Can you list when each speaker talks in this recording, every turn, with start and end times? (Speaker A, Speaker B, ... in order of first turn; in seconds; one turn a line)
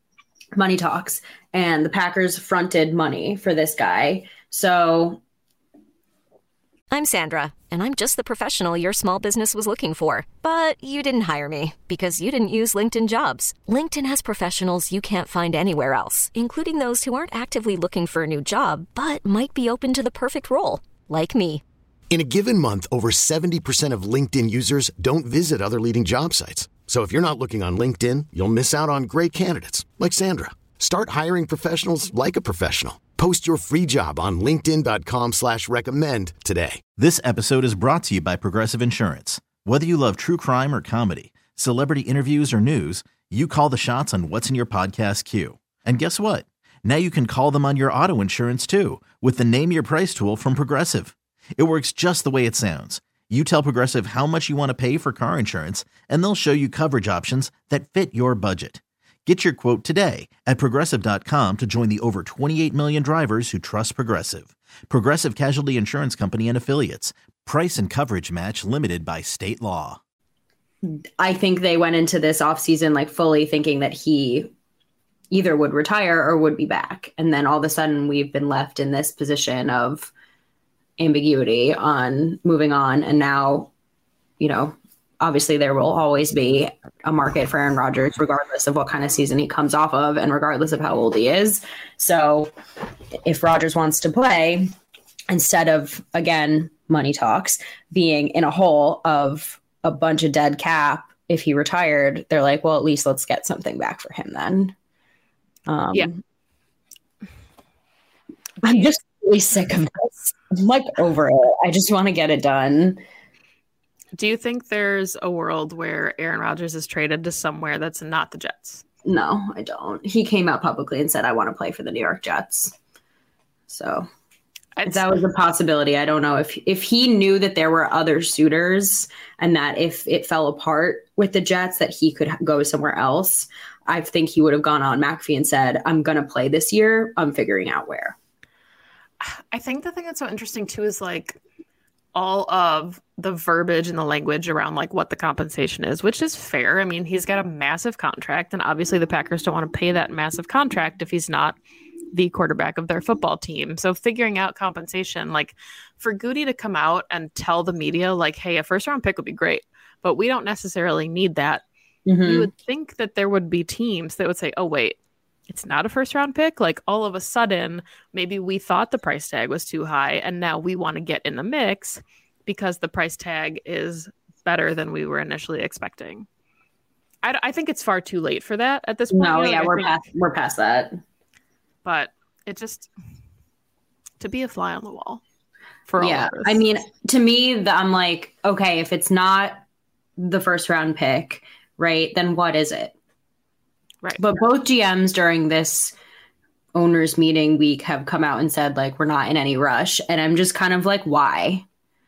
Speaker A: 0.5-5.2
Speaker B: 6.9-21.6
Speaker C: 22.1-36.8
Speaker D: 37.0-70.0
Speaker A: 70.8-74.5
Speaker A: 75.3-80.1
Speaker A: 81.0-83.7
Speaker A: 84.4-92.5
Speaker A: 93.2-94.7
Speaker A: 95.3-104.7
Speaker A: 105.7-106.2
Speaker A: 108.6-113.0
Speaker E: 108.6-108.9
Speaker E: 114.1-118.8
Speaker A: 119.0-122.7
Speaker A: 123.7-124.1
Speaker E: 124.8-125.2
Speaker A: 124.8-138.2
Speaker E: 139.2-141.4
Speaker E: 142.1-151.6
Speaker E: 152.1-161.6
Speaker A: 162.1-162.5
Speaker E: 162.2-165.0
Speaker E: 165.5-176.3
Speaker E: 177.2-180.0
Speaker A: 179.1-181.0
Speaker E: 181.8-182.9
Speaker E: 184.2-185.2
Speaker E: 185.9-186.6
Speaker A: 186.0-189.6
Speaker A: 190.2-192.9
Speaker A: 194.2-195.9
Speaker A: 196.7-201.6